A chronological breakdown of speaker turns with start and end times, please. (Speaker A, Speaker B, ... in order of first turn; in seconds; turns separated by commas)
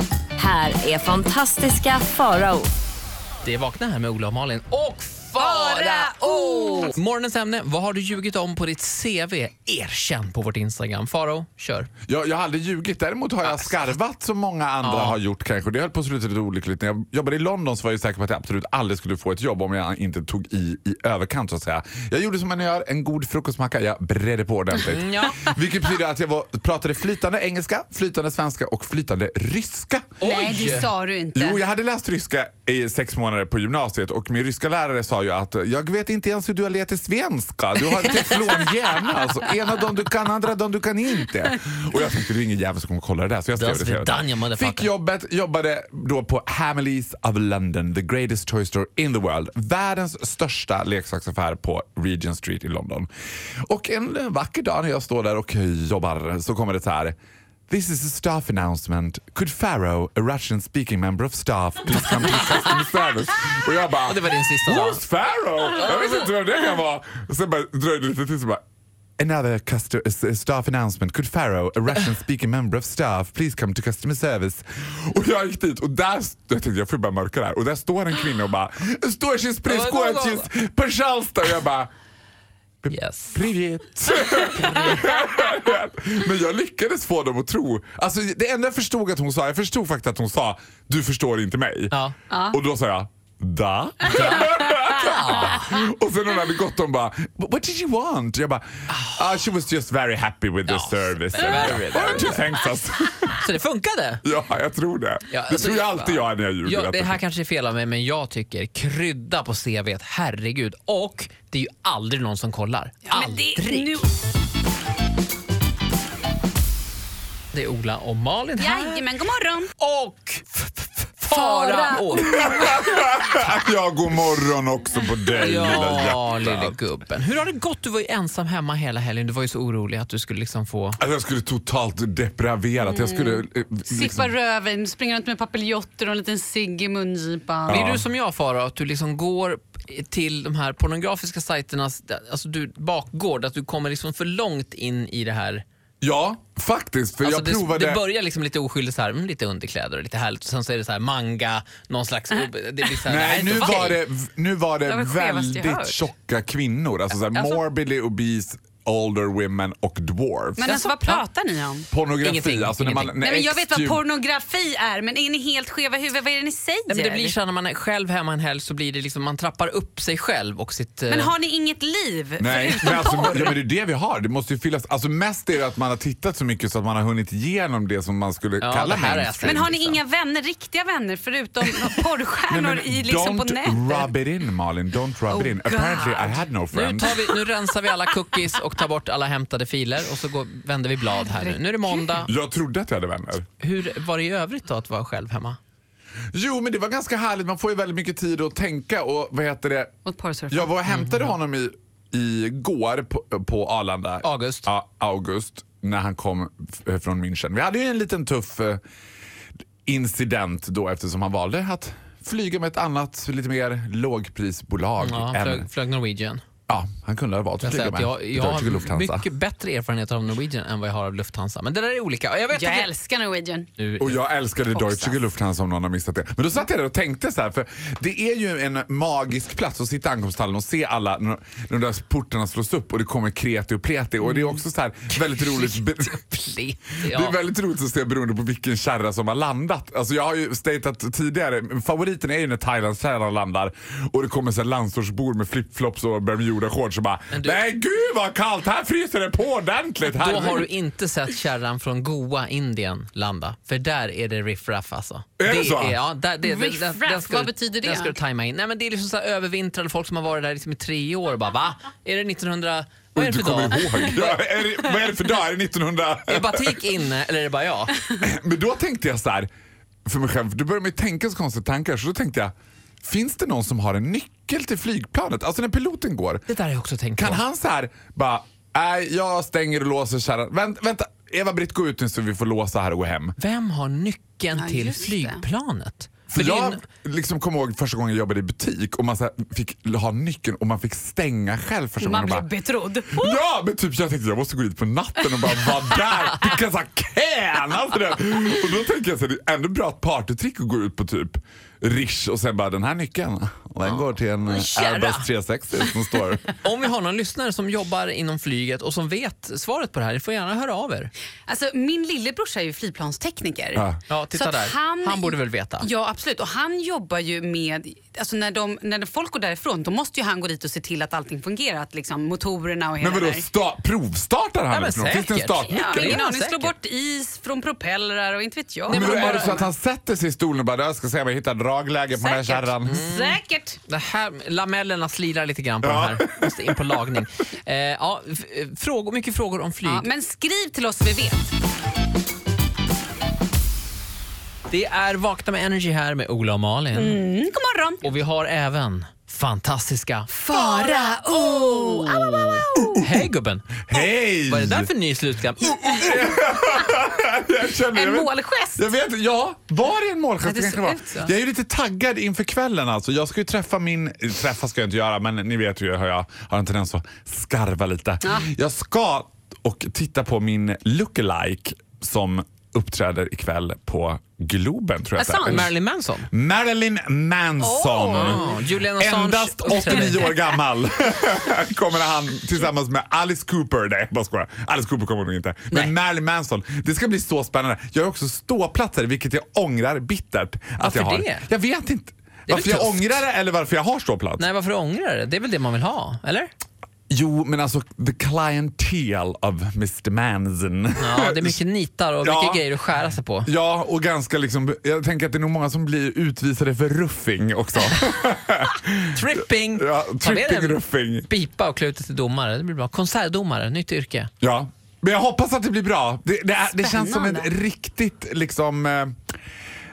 Speaker A: 0.4-2.7, Speaker B: 3.4-11.9, Speaker C: 5.4-7.0, Speaker D: 12.1-30.1, Speaker B: 14.8-15.2, Speaker B: 24.7-25.6, Speaker B: 30.2-30.9, Speaker C: 30.2-31.6, Speaker D: 31.3-53.1, Speaker B: 43.6-44.9, Speaker D: 53.6-57.2, Speaker D: 57.7-68.6, Speaker B: 64.0-65.0, Speaker D: 69.2-81.9, Speaker B: 79.7-80.5, Speaker D: 82.8-92.0, Speaker B: 82.9-83.4, Speaker B: 84.6-85.0, Speaker C: 92.3-92.6, Speaker D: 92.5-103.4, Speaker B: 94.2-94.4, Speaker B: 95.0-95.8, Speaker B: 98.9-99.2, Speaker B: 100.7-102.5, Speaker B: 103.4-104.2, Speaker D: 104.2-107.2, Speaker B: 105.3-114.0, Speaker C: 113.1-114.1, Speaker B: 117.5-119.1, Speaker C: 118.6-119.7, Speaker B: 119.8-122.8, Speaker C: 121.3-123.1, Speaker D: 122.1-126.8, Speaker B: 125.4-131.0, Speaker D: 131.0-134.3, Speaker C: 132.8-137.9, Speaker D: 137.7-138.1, Speaker B: 137.7-145.6, Speaker D: 146.0-148.0, Speaker B: 147.2-154.0, Speaker D: 153.1-160.8, Speaker C: 154.9-156.0, Speaker B: 157.3-157.6, Speaker C: 160.6-161.9, Speaker B: 160.6-161.2, Speaker D: 161.9-164.0, Speaker B: 162.2-163.2, Speaker C: 163.2-167.3, Speaker B: 166.9-171.3, Speaker C: 171.1-173.6, Speaker D: 172.4-179.8, Speaker B: 178.6-180.0, Speaker C: 179.4-184.1, Speaker D: 182.5-187.2, Speaker C: 185.3-186.4, Speaker B: 186.7-192.3, Speaker C: 191.2-192.1, Speaker D: 192.2-193.5, Speaker B: 193.6-195.6, Speaker D: 196.3-199.9, Speaker C: 200.1-200.7, Speaker D: 200.5-208.8, Speaker B: 200.9-201.3, Speaker B: 204.2-204.7, Speaker D: 209.9-215.7, Speaker B: 215.0-216.4, Speaker D: 216.7-219.3, Speaker B: 217.6-222.9, Speaker C: 222.5-223.7, Speaker B: 223.8-224.2, Speaker D: 224.0-236.2, Speaker C: 224.8-225.1, Speaker B: 235.4-237.4, Speaker D: 237.0-250.7, Speaker B: 247.3-247.6, Speaker B: 250.1-264.4, Speaker D: 255.4-256.0, Speaker C: 256.4-258.2, Speaker D: 263.1-266.8, Speaker B: 266.3-268.0, Speaker D: 268.2-269.5, Speaker D: 270.1-276.4, Speaker B: 276.5-277.4, Speaker D: 277.2-283.4, Speaker B: 283.4-286.8, Speaker C: 284.6-285.4, Speaker D: 286.3-292.5, Speaker C: 292.0-293.4, Speaker D: 293.1-306.5, Speaker B: 303.9-305.3, Speaker B: 306.6-311.1, Speaker C: 311.5-323.4, Speaker B: 314.1-315.9, Speaker D: 323.0-326.2, Speaker B: 324.7-326.7, Speaker C: 325.7-329.7, Speaker B: 328.9-329.6, Speaker D: 328.9-333.0, Speaker C: 332.1-333.8, Speaker B: 332.9-340.1, Speaker D: 335.8-337.0, Speaker C: 339.9-341.5, Speaker B: 344.7-347.2, Speaker C: 346.9-348.1, Speaker B: 348.0-356.0, Speaker C: 350.3-353.0, Speaker D: 352.7-353.0, Speaker D: 353.9-354.9, Speaker D: 355.6-375.7, Speaker C: 357.9-358.8, Speaker C: 360.4-361.3, Speaker C: 368.2-368.5, Speaker B: 375.2-376.3, Speaker D: 376.3-394.4, Speaker C: 377.6-378.6, Speaker B: 378.2-380.3, Speaker B: 390.8-391.5, Speaker B: 392.5-393.2, Speaker B: 394.4-396.5, Speaker D: 397.1-401.6, Speaker B: 401.0-403.5, Speaker D: 402.2-402.7, Speaker D: 403.4-411.3, Speaker B: 409.1-414.3, Speaker D: 414.4-419.2, Speaker C: 416.8-417.5